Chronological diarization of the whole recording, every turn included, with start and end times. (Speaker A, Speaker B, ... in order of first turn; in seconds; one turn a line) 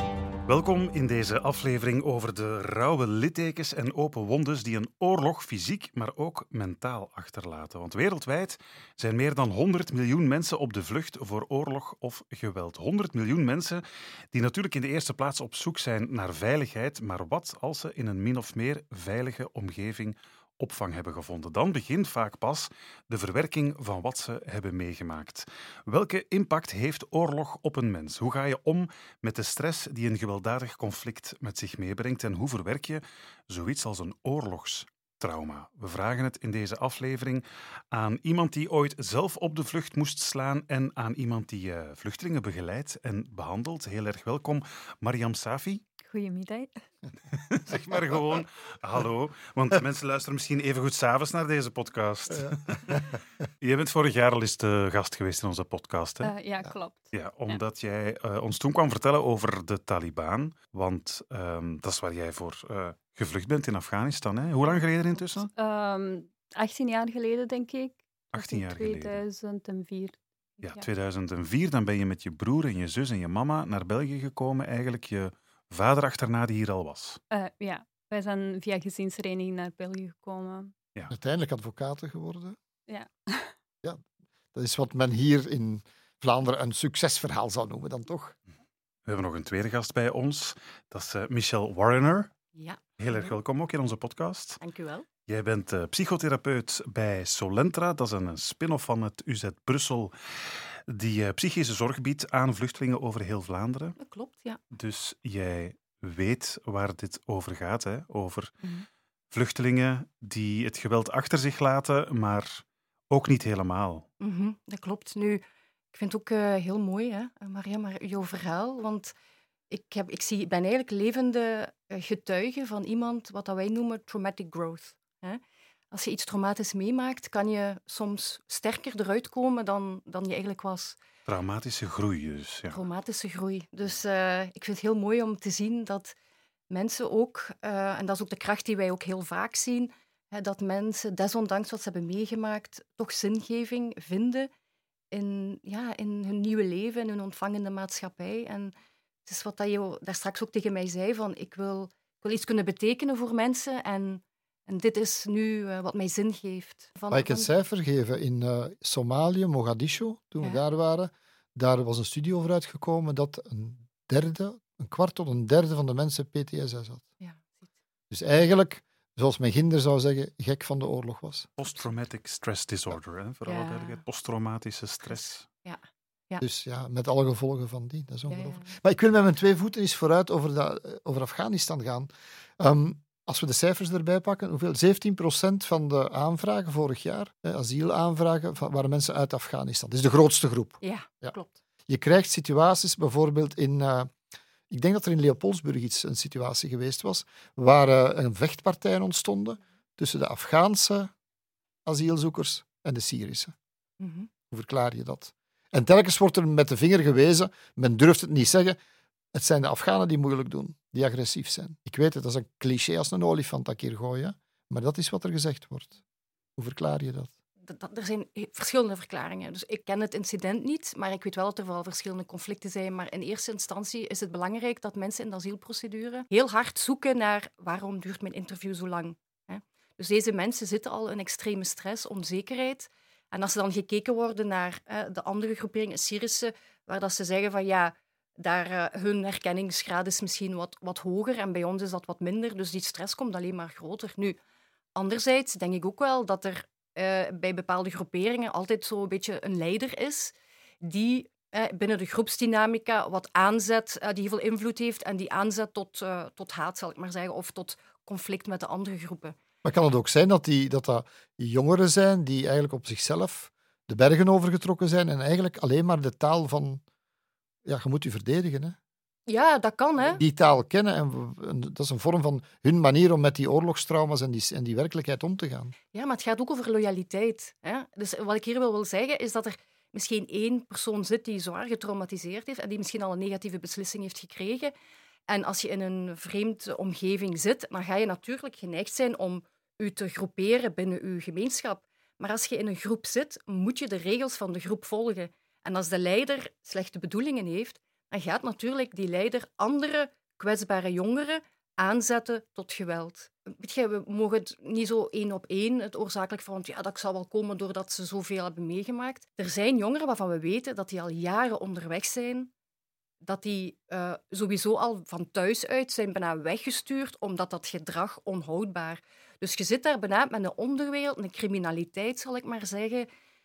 Speaker A: 0.5-45.8
Speaker B: 46.0-46.8
Speaker A: 47.3-53.0
Speaker C: 52.5-53.0
Speaker A: 53.6-56.3
Speaker B: 56.2-57.6
Speaker A: 57.1-65.5
Speaker B: 65.2-70.8
Speaker A: 68.3-69.2
Speaker A: 70.6-77.2
Speaker B: 77.3-80.7
Speaker C: 81.1-82.6
Speaker B: 82.9-83.5
Speaker C: 84.5-88.3
Speaker A: 89.1-92.3
Speaker D: 92.5-93.4
Speaker A: 93.0-94.6
Speaker D: 94.6-95.1
Speaker A: 95.3-100.1
Speaker A: 100.9-104.0
Speaker D: 104.0-104.6
Speaker A: 104.7-108.5
Speaker A: 109.3-114.0
Speaker D: 114.2-115.4
Speaker D: 115.9-119.1
Speaker D: 119.7-125.4
Speaker D: 125.9-131.0
Speaker A: 131.2-132.8
Speaker D: 132.7-136.1
Speaker D: 136.7-144.5
Speaker D: 145.1-148.7
Speaker D: 149.2-157.5
Speaker C: 157.1-167.0
Speaker D: 167.2-167.6
Speaker C: 168.1-171.5
Speaker A: 171.6-175.4
Speaker D: 173.4-174.0
Speaker D: 175.1-176.4
Speaker C: 176.4-191.3
Speaker D: 178.3-178.7
Speaker D: 190.8-191.6
Speaker C: 191.9-194.1
Speaker C: 194.7-201.1
Speaker C: 201.8-203.5
Speaker D: 204.0-204.3
Speaker C: 204.5-208.8
Speaker C: 209.3-216.0
Speaker C: 216.6-217.3
Speaker D: 217.7-244.4
Speaker D: 244.9-259.4
Speaker C: 259.6-266.8
Speaker C: 267.6-268.8
Speaker D: 269.3-270.2
Speaker C: 270.1-275.7
Speaker D: 275.9-284.7
Speaker D: 285.3-312.5
Speaker D: 313.2-323.1